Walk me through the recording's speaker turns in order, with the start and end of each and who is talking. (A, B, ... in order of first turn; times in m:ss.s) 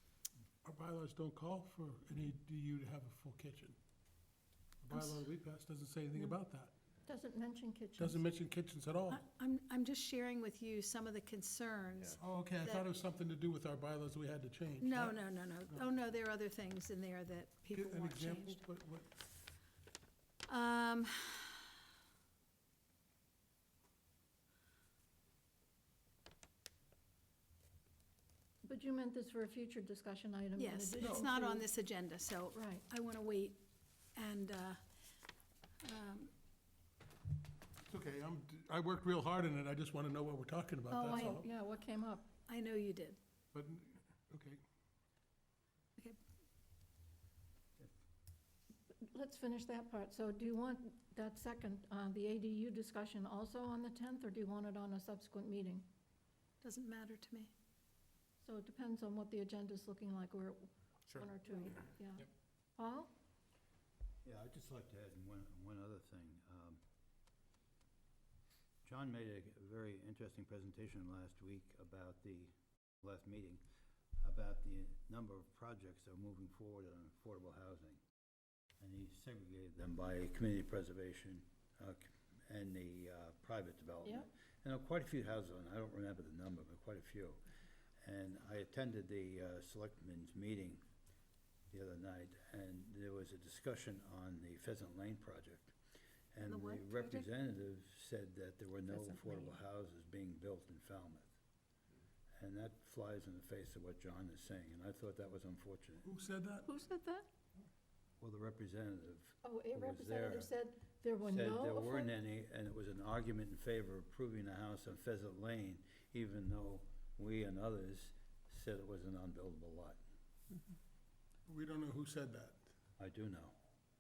0:00.6-0:03.8 A
0:04.8-0:06.7 A
0:04.9-0:05.2 B
0:07.1-0:08.2 C
0:08.0-0:09.2 A
0:09.1-0:12.9 B
0:12.2-0:15.9 A
0:14.8-0:18.6 B
0:17.7-0:19.2 A
0:20.5-0:21.6 B
0:28.6-0:31.6 C
0:30.6-0:33.6 B
0:32.5-0:32.9 C
0:34.2-0:34.8 B
0:35.8-0:36.3 B
0:37.8-0:41.5 A
0:40.9-0:41.4 B
0:41.1-0:42.3 C
0:42.4-0:43.2 B
0:43.5-0:44.6 A
0:49.1-0:55.9 C
0:56.6-0:57.5 B
0:58.4-1:03.1 C
1:04.2-1:06.8 D
1:08.8-1:13.6 D
1:14.2-1:18.0 D
1:18.8-1:27.4 D
1:28.0-1:30.8 D
1:31.7-1:35.8 D
1:36.3-1:41.3 D
1:36.4-1:37.3 B
1:38.9-1:39.6 B
1:42.4-1:46.1 D
1:46.0-1:46.7 A
1:46.6-1:47.3 C
1:48.2-1:50.5 D
1:49.4-1:52.2 C
1:51.2-2:00.0 D
2:01.5-2:02.6 A
2:03.0-2:03.6 D